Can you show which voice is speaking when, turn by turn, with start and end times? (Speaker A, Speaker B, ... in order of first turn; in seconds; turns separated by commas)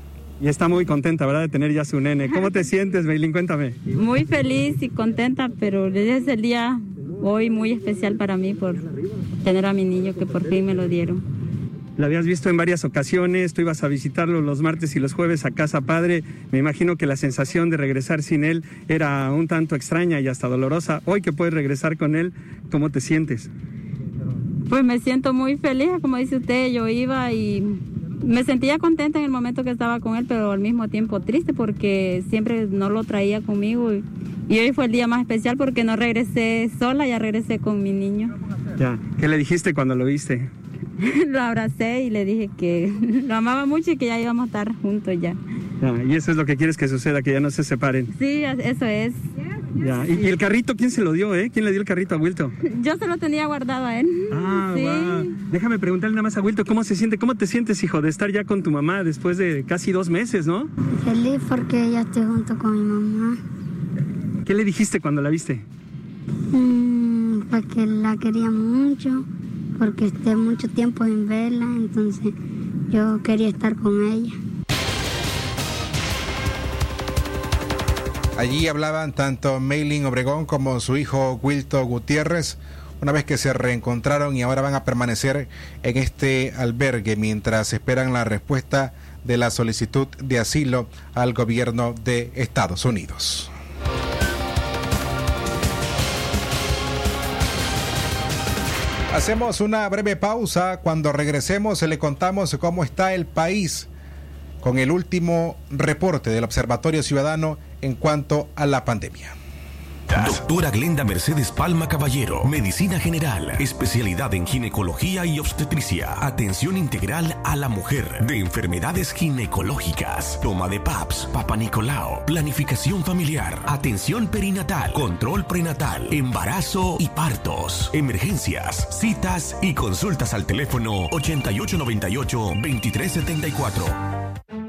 Speaker A: 0.4-3.8, Speaker B: 3.9-8.9, Speaker B: 9.4-11.2, Speaker A: 12.0-23.5, Speaker B: 24.7-38.3, Speaker A: 38.8-40.5, Speaker B: 41.0-45.4, Speaker A: 45.8-48.1, Speaker B: 48.1-49.2, Speaker A: 49.8-52.5, Speaker B: 52.6-55.4, Speaker A: 54.3-60.7, Speaker C: 61.0-63.4, Speaker A: 64.5-65.6, Speaker C: 66.5-69.2, Speaker C: 69.8-72.3, Speaker C: 72.9-74.3, Speaker D: 78.4-93.5, Speaker D: 99.1-103.9, Speaker D: 104.6-109.3, Speaker E: 110.1-134.0